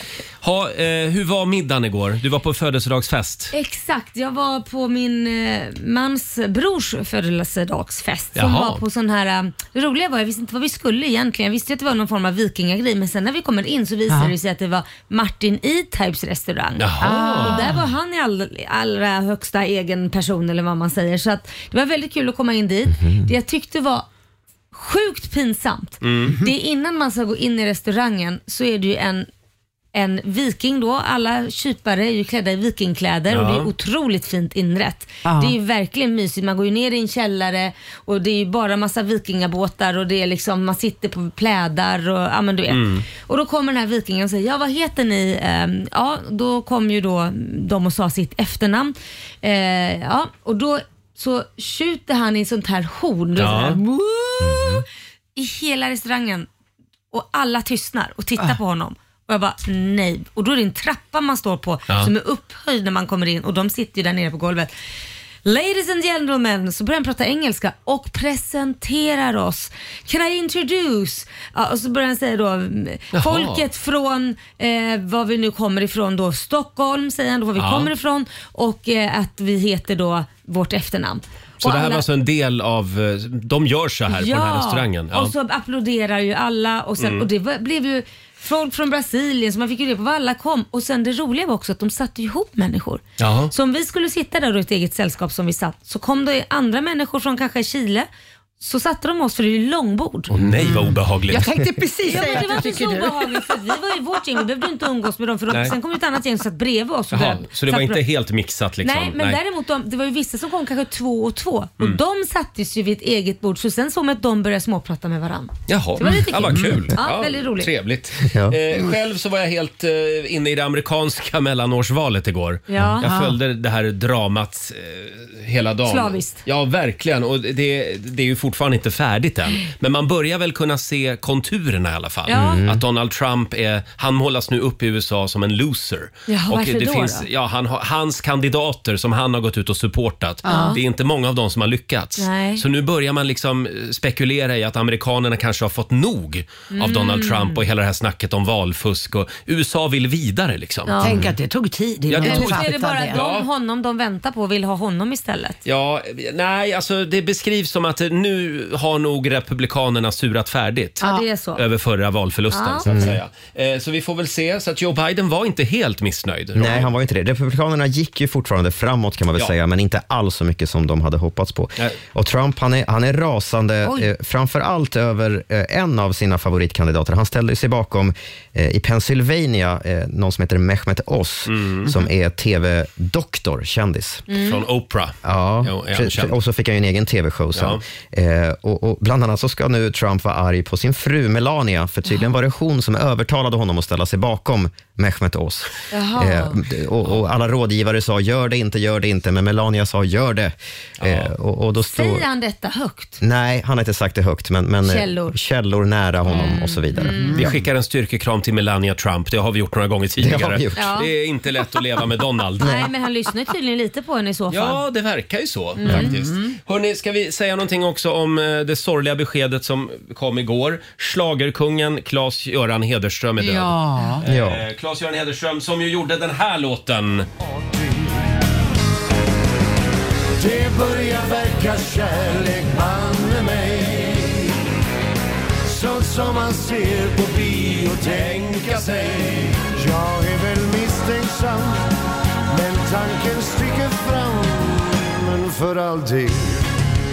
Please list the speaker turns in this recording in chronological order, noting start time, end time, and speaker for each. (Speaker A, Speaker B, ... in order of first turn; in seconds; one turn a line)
Speaker A: 0.4-3.5
Speaker B: 3.5-16.9
Speaker A: 8.3-8.8
Speaker C: 14.1-14.3
Speaker A: 16.8-17.7
Speaker C: 17.0-17.8
Speaker B: 17.4-24.1
Speaker D: 22.9-23.3
Speaker B: 24.7-29.3
Speaker A: 26.0-26.4
Speaker B: 29.9-54.8
Speaker A: 33.3-33.7
Speaker C: 35.2-35.5
Speaker A: 42.7-43.0
Speaker A: 53.4-53.8
Speaker D: 54.4-54.8
Speaker B: 55.4-56.5
Speaker B: 57.1-64.7
Speaker B: 65.4-82.0
Speaker A: 73.1-73.6
Speaker A: 77.6-77.9
Speaker A: 81.6-85.3
Speaker B: 84.1-98.1
Speaker A: 87.0-87.3
Speaker A: 93.2-93.5
Speaker B: 98.6-100.3
Speaker A: 100.3-101.5
Speaker C: 101.3-103.3
Speaker B: 102.0-108.0
Speaker A: 107.1-109.4
Speaker B: 108.8-117.7
Speaker A: 115.7-151.3
Speaker D: 118.2-118.6
Speaker B: 122.7-123.1
Speaker C: 123.0-123.3
Speaker B: 125.8-126.4
Speaker B: 132.3-132.6
Speaker D: 132.3-132.8
Speaker B: 136.3-137.2
Speaker C: 140.4-140.8
Speaker B: 140.4-140.8
Speaker B: 142.2-142.6
Speaker B: 146.7-147.6
Speaker B: 150.9-151.2
Speaker C: 151.0-153.2
Speaker A: 152.1-153.4
Speaker B: 152.2-155.6
Speaker A: 155.6-161.0
Speaker B: 161.0-161.6
Speaker A: 161.6-166.9
Speaker B: 162.5-162.9
Speaker D: 162.8-163.2
Speaker D: 166.5-184.3
Speaker B: 173.8-174.1
Speaker A: 181.5-182.1
Speaker B: 184.3-184.6
Speaker A: 184.4-186.3
Speaker D: 185.2-202.2
Speaker A: 187.5-187.8
Speaker B: 195.9-196.6
Speaker A: 201.0-201.3
Speaker B: 201.8-203.2
Speaker D: 203.2-207.6
Speaker B: 204.8-205.4
Speaker B: 206.3-207.4
Speaker C: 207.0-207.4
Speaker A: 207.3-212.9
Speaker D: 210.2-210.9
Speaker B: 210.8-211.1
Speaker B: 212.6-214.8
Speaker A: 214.5-227.3
Speaker C: 215.8-216.5
Speaker B: 215.8-216.1
Speaker C: 223.4-224.2
Speaker D: 224.2-224.6
Speaker E: 230.4-234.5
Speaker E: 235.7-241.8
Speaker A: 238.0-239.5
Speaker E: 242.5-246.7